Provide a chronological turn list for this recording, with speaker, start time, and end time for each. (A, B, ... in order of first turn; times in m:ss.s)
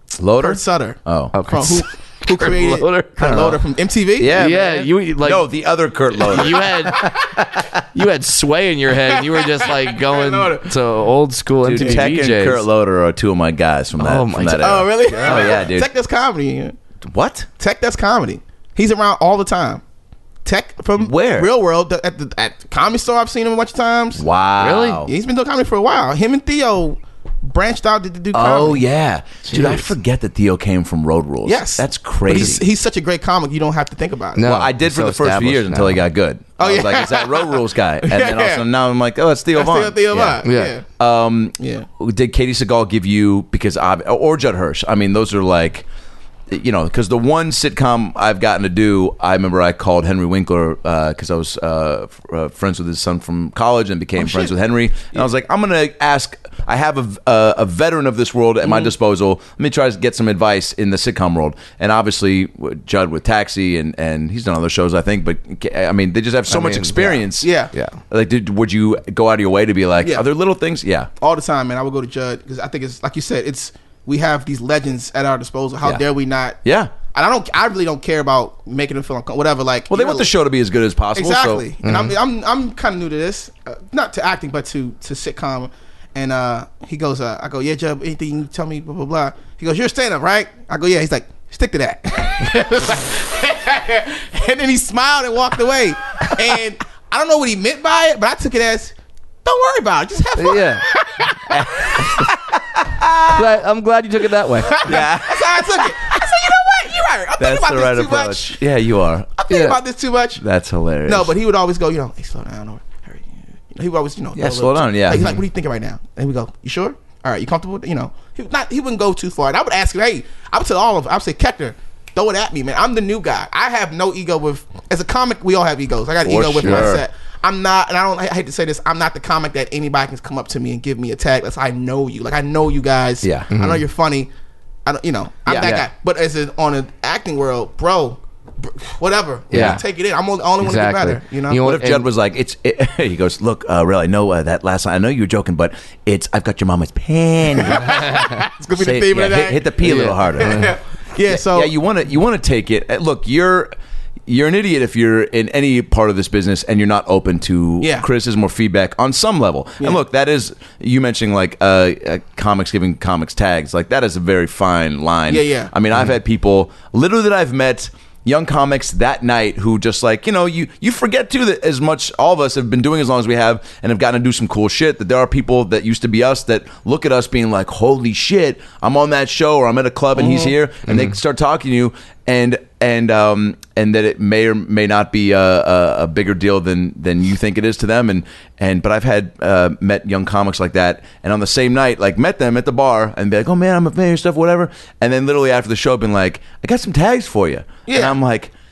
0:00.2-0:01.3 A
0:00.4-0:04.4 B
0:01.3-0:03.5 C
0:03.2-0:03.6 A
0:04.2-0:07.8 A
0:04.3-0:05.5 C
0:06.2-0:07.1 C
0:06.3-0:07.2 B
0:07.9-0:12.6 C
0:09.1-0:10.7 B
0:11.6-0:15.9 A
0:11.8-0:12.1 B
0:14.0-0:14.8 C
0:14.5-0:16.8 B
0:17.0-0:17.5 A
0:17.6-0:19.8 B
0:20.4-0:24.2 B
0:21.0-0:21.5 A
0:24.2-0:25.1 A
0:24.6-0:25.0 C
0:25.0-0:28.8 B
0:28.3-0:32.6 A
0:29.5-0:29.9 C
0:31.4-0:34.5 B
0:34.4-0:36.0 C
0:34.4-0:40.4 A
0:36.6-0:38.6 B
0:39.5-0:40.9 B
0:40.4-0:40.7 C
0:41.0-0:45.9 A
0:41.6-0:41.9 B
0:46.5-1:07.5 A
0:54.2-0:54.5 B
1:06.5-1:07.2 C
1:07.0-1:07.7 B
1:07.7-1:08.0 C
1:08.1-1:11.1 A
1:10.0-1:10.3 B
1:11.2-1:20.3 B
1:16.6-1:16.9 A
1:19.9-1:21.7 A
1:21.2-1:42.2 B
1:21.8-1:22.2 C
1:40.4-1:40.8 C
1:41.5-1:43.5 A
1:43.3-1:44.9 C
1:44.7-1:48.6 B
1:44.8-1:46.2 A
1:47.4-1:49.3 A
1:49.4-1:50.4 B
1:49.5-1:49.8 C
1:50.4-1:51.3 A
1:51.1-2:14.3 B
1:54.4-1:55.4 A
2:06.2-2:07.0 A
2:06.6-2:07.0 C
2:13.2-2:13.5 A
2:13.5-2:13.8 C
2:14.9-2:21.6 B
2:15.5-2:15.8 A
2:15.6-2:15.9 C
2:19.5-2:19.8 A
2:19.5-2:19.8 C
2:20.6-2:22.1 C
2:21.6-2:28.2 A
2:27.6-2:31.7 B
2:28.8-2:30.8 A
2:29.8-2:30.7 C
2:31.3-2:33.7 A
2:34.3-3:18.5 A
2:37.8-2:38.1 B
2:45.3-2:45.7 B
3:00.2-3:00.6 B
3:00.9-3:01.2 C
3:17.9-3:18.2 B